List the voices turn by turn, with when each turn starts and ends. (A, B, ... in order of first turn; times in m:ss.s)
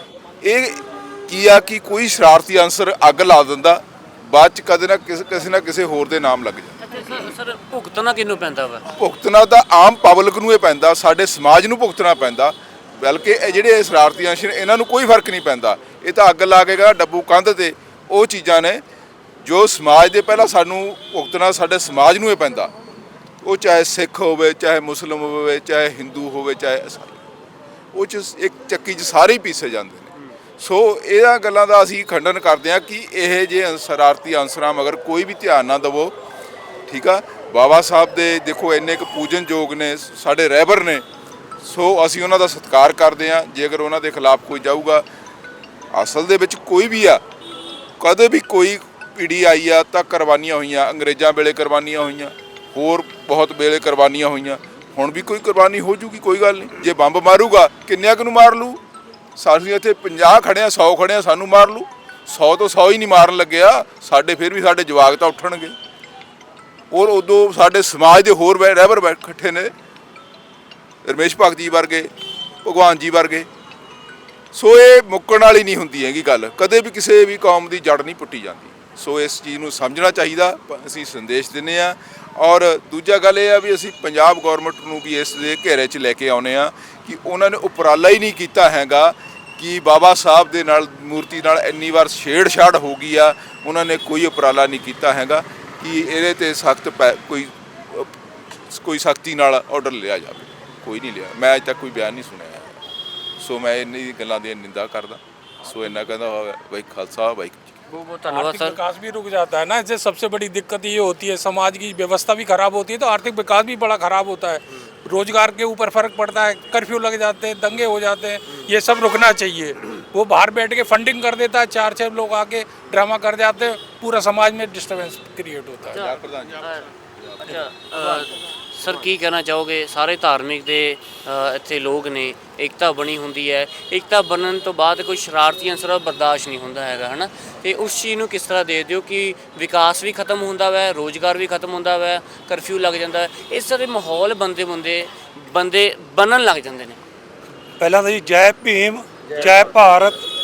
0:00.4-0:06.8 A
0:06.8-0:08.9 B
0:09.0-0:18.8 A
0:19.4-0:22.7 A
0:23.4-0:27.2 A
0:27.9-0:36.1 A
0:36.9-0:41.0 A
0:41.6-0:45.0 A
0:45.9-0:47.2 A
0:48.0-0:58.8 A
0:59.4-1:05.8 A
1:06.9-1:09.7 A
1:11.0-1:12.1 A
1:12.6-1:13.5 A
1:14.5-1:38.1 A
1:38.7-1:42.8 A
1:43.4-1:47.8 A
1:47.9-1:48.8 B
1:48.4-2:05.8 C
2:05.9-2:07.6 A
2:05.9-2:06.9 B
2:07.4-2:27.0 B
2:27.8-2:30.3 D